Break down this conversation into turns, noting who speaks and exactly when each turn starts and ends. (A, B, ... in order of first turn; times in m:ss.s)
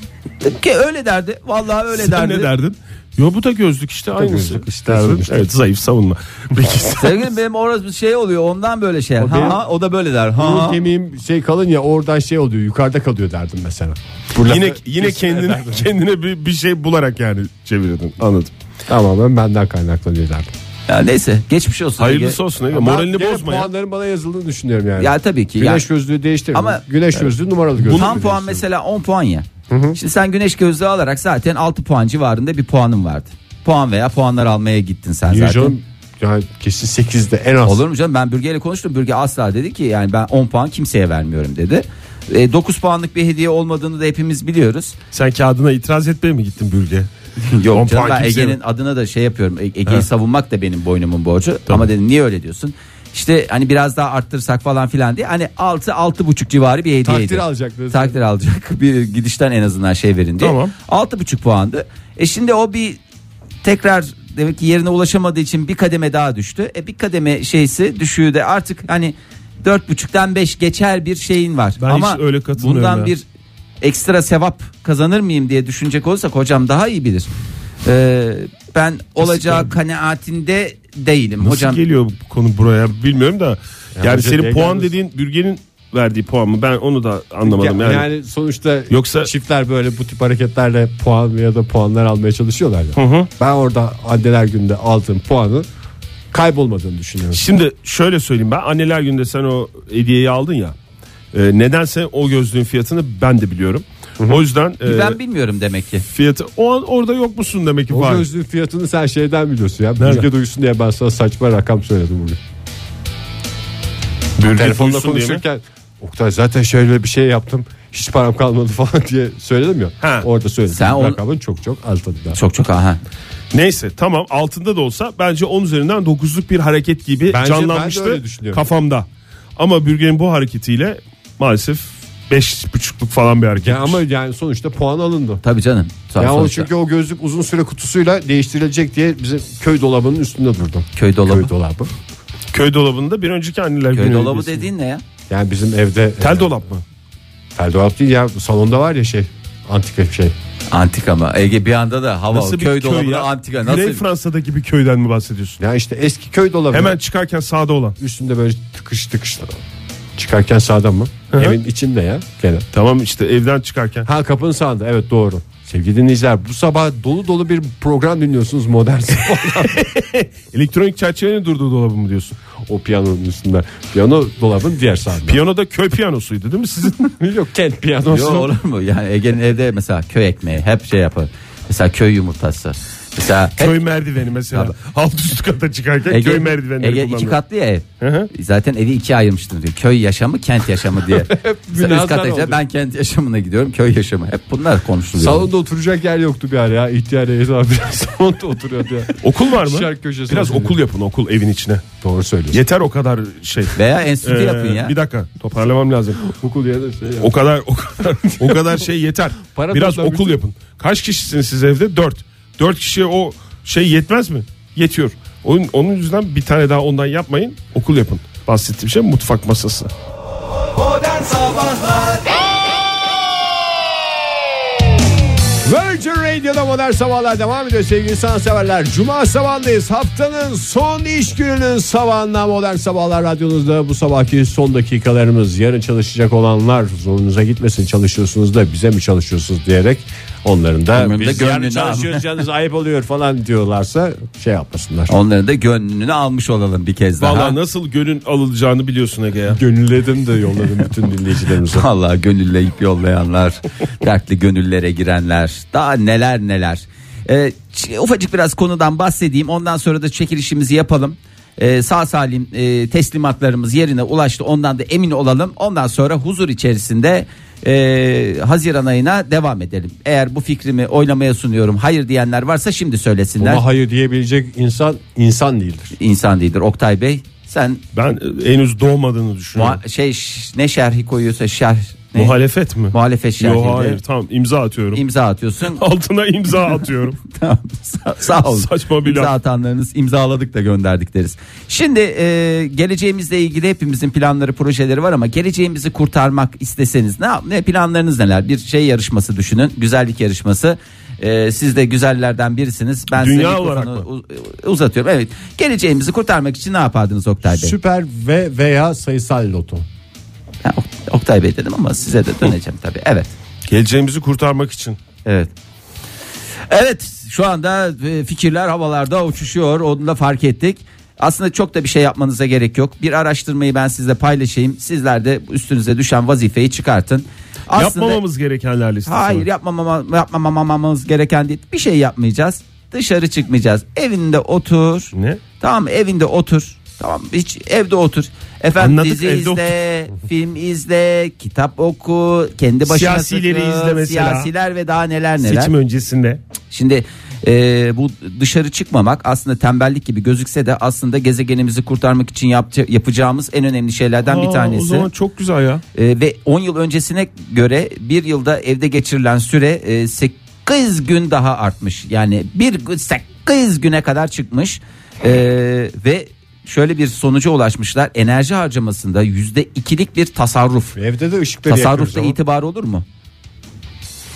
0:00.4-0:02.5 A
0:01.9-0:07.3 B
0:04.2-0:05.5 C
0:07.0-0:10.8 A
0:09.2-0:09.6 C
0:10.4-0:15.9 C
0:14.4-0:18.5 B
0:18.9-0:20.5 C
0:20.9-0:22.4 A
0:22.0-0:23.7 B
0:22.7-0:28.6 C
0:25.0-0:25.9 A
0:26.5-0:27.3 A
0:27.9-0:28.3 B
0:27.9-0:35.8 A
0:29.7-0:30.0 C
0:35.3-0:37.8 C
0:37.6-0:45.0 A
0:45.1-0:47.1 B
0:47.5-1:03.0 A
0:47.7-0:48.6 B
0:57.0-0:58.2 C
1:00.4-1:00.7 B
1:03.6-1:13.2 A
1:11.8-1:13.1 B
1:13.8-1:17.3 A
1:17.8-1:21.8 A
1:19.2-1:19.7 B
1:21.4-1:28.1 B
1:24.0-1:24.9 C
1:27.4-1:35.7 C
1:28.9-1:29.3 B
1:33.0-1:33.3 B
1:36.3-1:37.4 C
1:37.3-1:40.8 B
1:41.3-1:45.2 B
1:44.8-1:46.0 A
1:46.0-1:48.2 B
1:47.9-1:52.4 C
1:50.0-1:50.3 B
1:54.4-1:55.4 B
1:54.5-2:02.4 C
2:00.0-2:00.3 B
2:00.7-2:01.2 A
2:02.4-2:03.0 A
2:03.5-2:14.0 B
2:07.3-2:08.7 C
2:13.6-2:15.4 C
2:15.4-2:16.7 A
2:16.2-2:21.9 C
2:21.0-2:21.5 A
2:22.5-2:24.7 B
2:23.9-2:25.0 A
2:25.3-2:26.6 C
2:26.2-2:26.8 B
2:27.6-2:30.4 C
2:30.7-2:34.1 A
2:32.3-2:35.6 B
2:35.6-2:37.0 C
2:36.7-2:38.0 B
2:38.0-2:39.6 C
2:40.2-2:42.7 C
2:41.3-2:41.6 B
2:42.7-2:44.1 B
2:44.0-2:50.0 C
2:49.6-2:52.4 B
2:52.7-2:55.4 C
2:55.3-2:57.1 B
2:57.2-2:58.5 C
2:58.1-3:03.8 A
3:03.6-3:07.4 B
3:06.1-3:15.5 A
3:08.0-3:08.3 B
3:11.1-3:12.6 C
3:15.2-3:20.7 C
3:19.2-3:21.8 B
3:22.0-3:22.6 C
3:22.5-3:26.3 B
3:23.8-3:25.0 A
3:26.2-3:27.4 C
3:27.2-3:39.9 B
3:28.2-3:28.8 C
3:29.4-3:30.4 C
3:45.6-4:05.1 C
4:00.9-4:02.4 A
4:05.1-4:07.6 A
4:07.2-4:09.6 B
4:09.5-4:11.9 C
4:11.7-4:33.6 A
4:33.4-4:36.0 C
4:36.0-4:37.8 A
4:37.9-4:39.8 B
4:39.6-4:42.4 A
4:42.1-4:45.0 B
4:42.9-4:44.0 A
4:44.9-4:45.8 A
4:45.6-4:47.2 B
4:47.3-5:07.8 A
4:48.2-4:49.3 B
5:03.1-5:04.1 B
5:07.4-5:09.9 C
5:10.6-5:13.3 A
5:13.7-5:15.0 B
5:15.2-5:15.5 A
5:16.7-5:28.2 A
5:27.7-5:29.5 B
5:29.1-5:45.7 A
5:35.2-5:35.4 B
5:38.8-5:39.8 B
5:42.9-5:44.5 B
5:45.4-5:46.4 B
5:46.7-5:55.1 A
5:54.3-5:55.8 B
5:56.0-6:11.0 A
6:11.0-6:12.4 C
6:11.7-6:13.0 A